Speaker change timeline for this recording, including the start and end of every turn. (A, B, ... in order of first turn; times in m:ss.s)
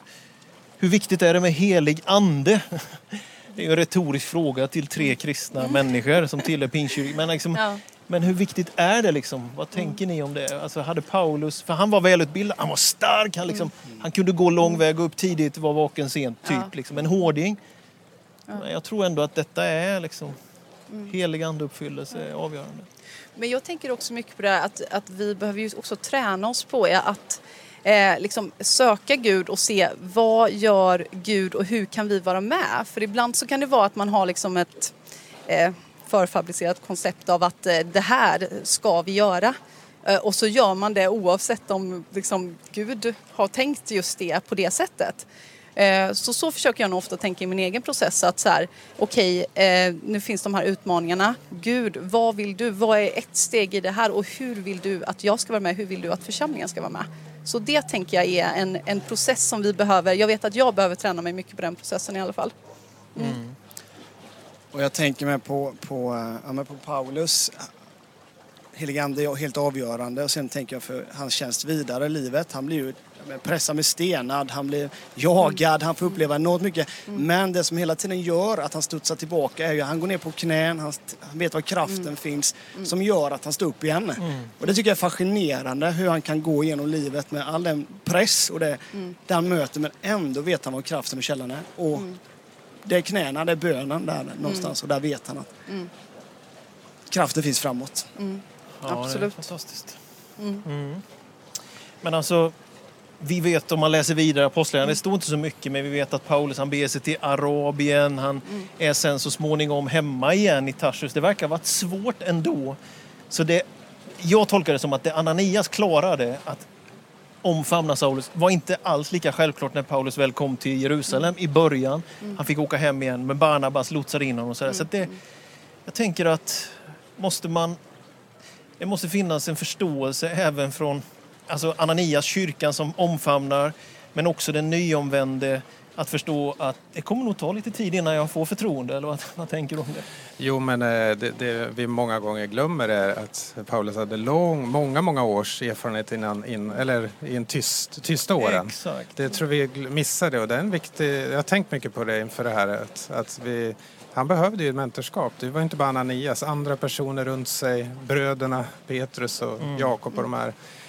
0:00.8-0:17.6 A
0:07.5-0:07.8 B
0:18.5-0:20.4 A
0:21.1-0:22.9 A
0:23.3-0:34.9 B
0:35.5-1:02.5 B
1:03.1-1:03.4 B
1:03.2-1:03.5 A
1:04.7-1:07.7 C
1:08.7-1:32.1 C
1:24.2-1:24.5 A
1:32.8-1:35.5 C
1:34.4-1:34.7 B
1:37.1-1:38.1 C
1:38.2-1:39.4 B
1:38.8-1:40.0 A
1:40.4-1:40.6 B
1:40.6-1:41.0 A
1:42.0-1:42.5 A
1:43.2-1:52.8 A
1:53.3-1:53.6 A
1:54.2-1:56.7 A
1:57.4-2:05.1 A
2:05.8-2:07.8 A
2:08.8-2:20.0 A
2:20.4-2:40.5 D
2:28.4-2:29.1 A
2:39.6-2:40.0 A